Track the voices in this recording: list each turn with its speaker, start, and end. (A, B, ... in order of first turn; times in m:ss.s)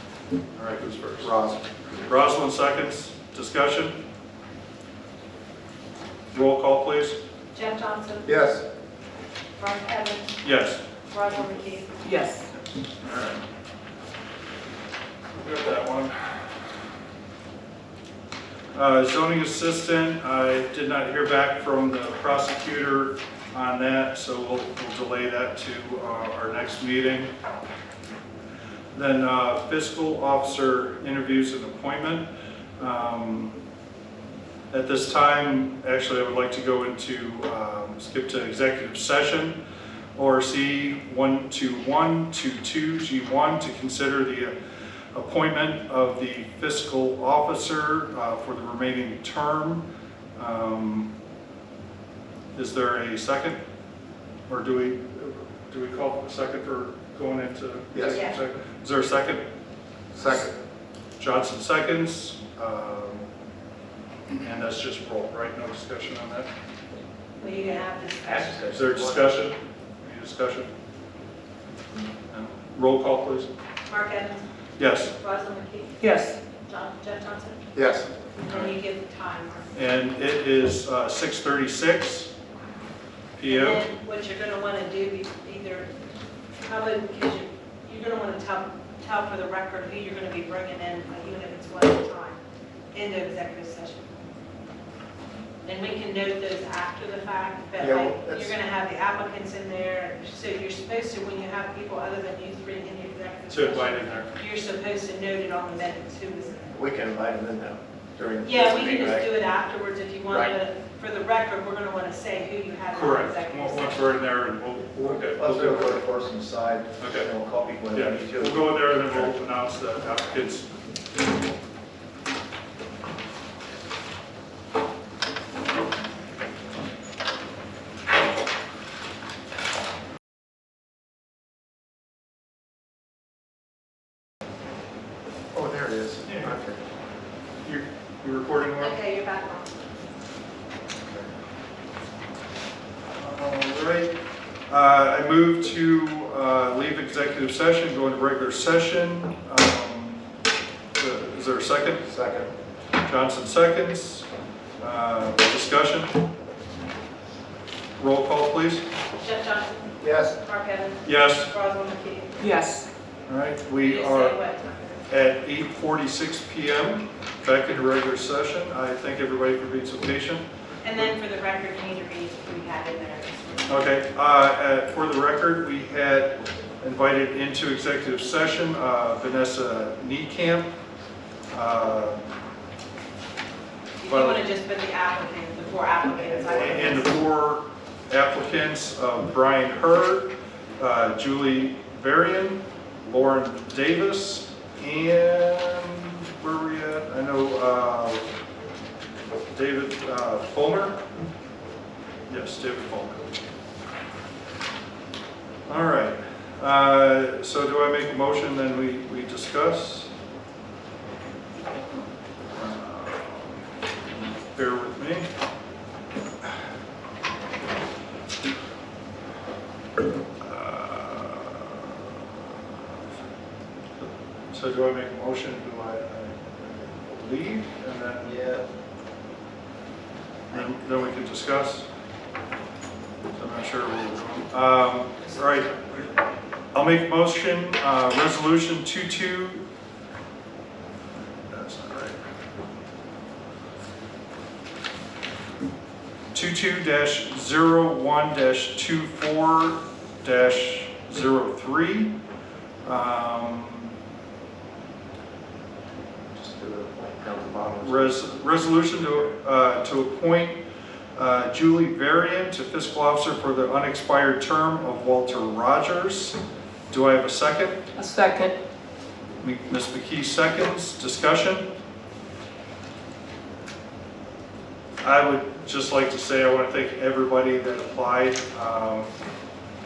0:00.6-0:04.0 A
0:01.3-0:01.6 B
0:06.3-0:07.2 A
0:07.5-0:08.3 C
0:08.2-0:08.6 B
0:09.6-0:10.4 C
0:10.4-0:10.8 A
0:11.1-0:12.0 C
0:12.0-0:12.5 D
0:12.5-0:13.4 A
0:15.3-0:16.3 A
0:18.7-0:27.3 A
0:28.9-0:32.3 A
0:32.8-0:33.6 A
0:34.7-0:39.6 A
0:40.2-0:44.6 A
0:45.1-0:49.8 A
0:50.4-0:51.1 A
0:52.5-0:53.6 A
0:54.5-0:59.4 A
0:57.9-0:58.2 B
1:00.1-1:00.6 B
1:00.2-1:00.4 A
1:01.2-1:03.2 A
1:04.4-1:06.5 A
1:07.4-1:08.6 C
1:08.2-1:09.3 B
1:08.7-1:10.7 A
1:12.3-1:13.5 A
1:13.9-1:14.4 C
1:14.8-1:15.1 A
1:15.1-1:16.0 C
1:16.0-1:16.4 D
1:16.6-1:17.6 C
1:17.7-1:18.1 B
1:18.4-1:19.7 C
1:19.7-1:22.3 A
1:23.4-1:23.8 A
1:23.5-1:25.9 C
1:26.6-1:32.4 C
1:32.9-1:34.0 C
1:35.6-1:46.7 C
1:37.8-1:38.5 B
1:43.5-1:44.3 A
1:46.7-1:49.3 B
1:48.4-1:54.0 C
1:50.3-1:50.5 B
1:52.9-1:56.0 A
1:55.0-1:59.3 B
1:57.0-1:57.3 A
1:57.9-2:00.7 A
2:15.5-2:16.8 B
2:16.2-2:16.6 A
2:17.6-2:19.0 A
2:18.8-2:19.7 C
2:23.1-2:24.2 A
2:24.7-2:30.3 A
2:30.9-2:32.0 A
2:32.0-2:32.5 B
2:33.0-2:34.3 A
2:34.8-2:36.2 A
2:38.0-2:38.8 A
2:39.2-2:42.5 C
2:40.0-2:40.4 B
2:41.0-2:41.5 A
2:42.4-2:42.9 D
2:43.3-2:44.4 A
2:43.8-2:45.0 C
2:45.1-2:50.4 A
2:50.8-2:53.8 C
2:53.7-3:00.7 A
3:01.5-3:02.2 A
3:04.0-3:07.1 C
3:04.0-3:04.4 A
3:06.2-3:07.0 B
3:06.5-3:18.2 A
3:19.5-3:21.0 A
3:22.3-3:23.3 A
3:25.7-3:30.1 A
3:32.5-3:35.3 A
3:40.4-3:42.1 A
3:44.0-3:48.4 A
3:48.2-3:48.7 B
3:50.5-3:51.9 A
3:53.4-3:56.1 A
3:56.7-3:59.6 A
4:01.5-4:02.2 A
4:06.3-4:12.2 A
4:12.8-4:13.9 A
4:16.3-4:18.2 B
4:17.8-4:20.6 A
4:21.2-4:26.4 A
4:26.9-4:27.8 A
4:27.9-4:28.6 D
4:29.4-4:31.7 A
4:35.0-4:39.1 A